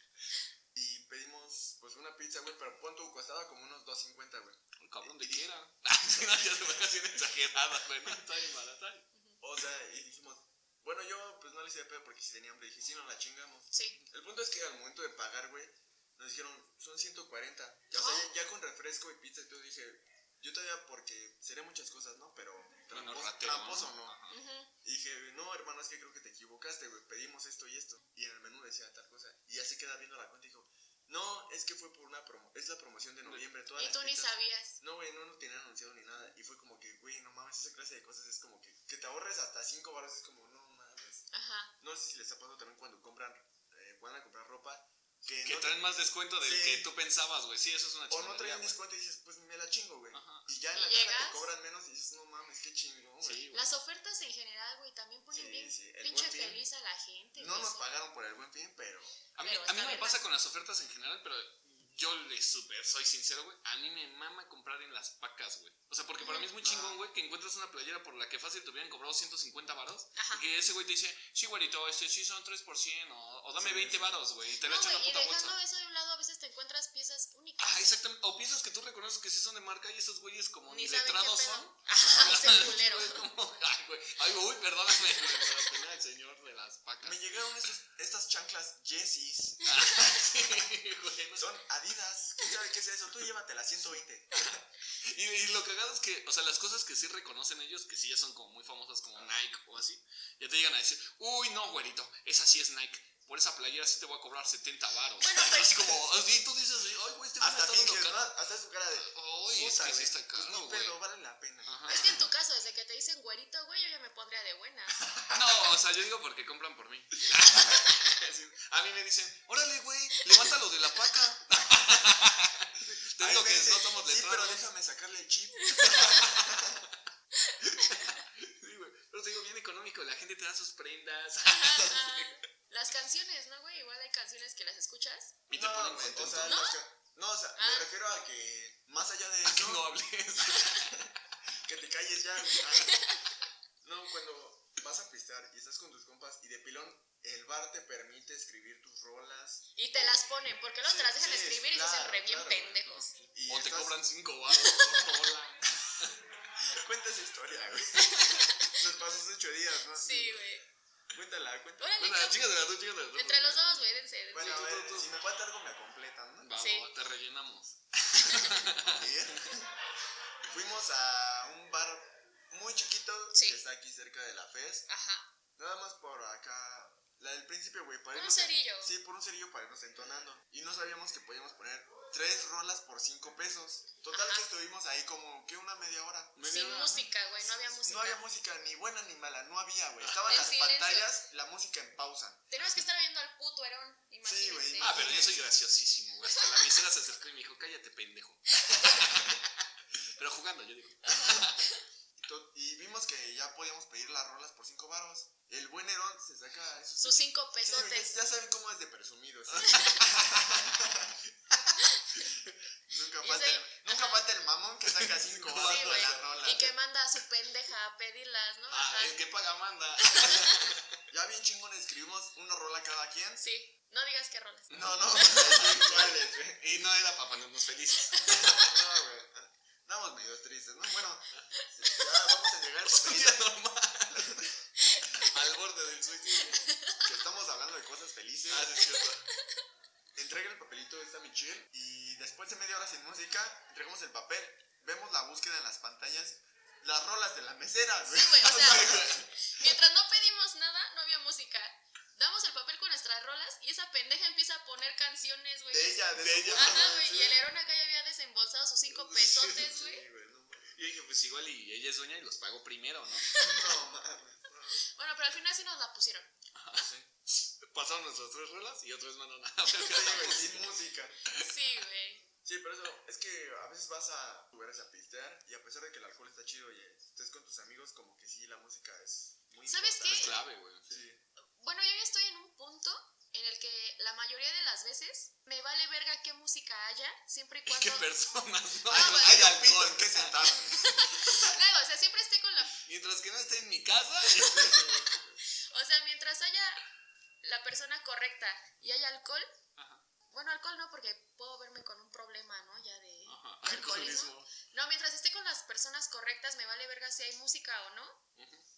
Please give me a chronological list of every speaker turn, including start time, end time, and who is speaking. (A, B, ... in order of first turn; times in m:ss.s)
0:00.8-0:05.5 A
0:04.8-0:09.1 B
0:06.2-0:06.5 A
0:09.1-0:09.4 C
0:09.4-0:24.2 A
0:13.7-0:14.0 C
0:17.9-0:18.3 C
0:22.9-0:24.4 B
0:24.3-0:24.7 C
0:24.8-0:41.3 A
0:33.8-0:34.8 C
0:41.3-0:41.7 C
0:41.8-0:46.9 A
0:45.4-0:48.8 B
0:48.1-0:53.5 A
0:50.1-0:50.5 B
0:50.7-0:51.5 C
0:53.2-0:53.7 B
0:53.5-0:57.9 C
0:55.3-0:56.6 A
0:57.4-0:59.2 A
0:59.4-1:15.6 B
0:59.4-1:00.2 C
1:06.2-1:06.5 C
1:06.6-1:07.0 A
1:10.2-1:10.4 C
1:13.5-1:14.2 A
1:14.6-1:17.9 C
1:17.6-1:27.2 B
1:20.7-1:23.3 C
1:27.0-1:29.7 A
1:29.6-1:31.5 B
1:31.4-1:34.6 A
1:34.3-1:48.3 B
1:45.2-1:46.0 C
1:47.4-1:52.2 A
1:48.9-1:51.0 B
1:51.6-1:52.3 B
1:51.9-1:55.0 C
1:55.0-1:55.8 A
1:55.3-2:04.6 B
2:03.2-2:06.9 A
2:05.6-2:06.3 C
2:06.0-2:06.5 B
2:07.4-2:08.2 C
2:07.6-2:12.4 B
2:11.4-2:15.4 C
2:15.5-2:16.6 B
2:15.5-2:19.9 A
2:16.4-2:16.8 C
2:17.6-2:17.9 C
2:19.4-2:21.0 B
2:20.5-2:23.1 A
2:22.5-2:23.2 C
2:23.8-2:30.2 A
2:29.8-2:33.2 C
2:30.8-2:34.0 A
2:32.9-2:36.2 B
2:34.5-2:34.9 C
2:36.6-2:40.5 A
2:37.9-2:38.8 C
2:40.0-2:40.6 C
2:41.1-2:41.9 A
2:41.8-2:44.7 C
2:42.0-2:45.2 B
2:44.3-2:46.5 A
2:46.4-2:49.5 B
2:46.6-2:46.9 C
2:48.2-2:48.5 C
2:48.8-2:49.7 A
2:50.4-2:54.9 A
2:53.3-2:53.6 C
2:54.9-2:55.3 C
2:55.6-3:06.5 A
2:58.1-2:59.0 C
3:04.1-3:04.5 C
3:06.4-3:07.1 B
3:06.4-3:08.2 C
3:07.4-3:12.5 A
3:10.3-3:11.2 C
3:12.5-3:15.0 C
3:14.2-3:15.5 A
3:14.8-3:21.6 B
3:16.3-3:16.7 C
3:18.5-3:19.1 C
3:21.0-3:21.8 C
3:22.2-3:31.2 A
3:27.0-3:28.1 C
3:29.5-3:30.5 B
3:29.6-3:30.1 C
3:31.8-3:32.3 C
3:32.9-3:36.8 A
3:33.2-3:34.2 C
3:35.0-3:36.3 B
3:35.6-3:39.2 C
3:38.7-3:40.9 B
3:40.0-3:40.6 C
3:41.1-3:43.4 A
3:43.4-3:45.8 C
3:44.7-3:46.6 A
3:44.7-3:48.6 B
3:48.1-3:48.6 C
3:48.3-3:53.5 A
3:51.6-3:52.0 C
3:52.8-3:54.5 B
3:54.1-3:54.6 A
3:54.8-3:55.4 C
3:55.1-3:56.7 B
3:56.6-3:57.0 C
3:57.0-3:58.8 A
3:58.5-3:59.3 B
4:00.2-4:09.3 A
4:08.1-4:20.0 C
4:08.4-4:09.3 B
4:15.7-4:17.5 A
4:16.2-4:17.0 B
4:18.9-4:19.8 B
4:19.6-4:20.8 A
4:20.7-4:23.3 B
4:23.3-4:23.8 C
4:23.4-4:24.8 A
4:24.8-4:26.9 C
4:26.5-4:30.8 B
4:29.8-4:31.2 A
4:31.3-4:32.3 C
4:32.4-4:41.2 A
4:39.7-4:40.4 C
4:40.1-4:41.0 B
4:41.6-4:48.1 C
4:47.7-4:50.6 B
4:48.9-4:51.4 A
4:48.9-4:49.5 C
4:50.7-4:52.8 C
4:52.8-4:55.3 B
4:54.4-4:55.0 C
4:55.6-4:56.8 C
4:57.4-4:59.5 C
4:59.8-5:00.0 B
5:00.3-5:08.2 C
5:03.3-5:04.5 B
5:08.4-5:08.6 B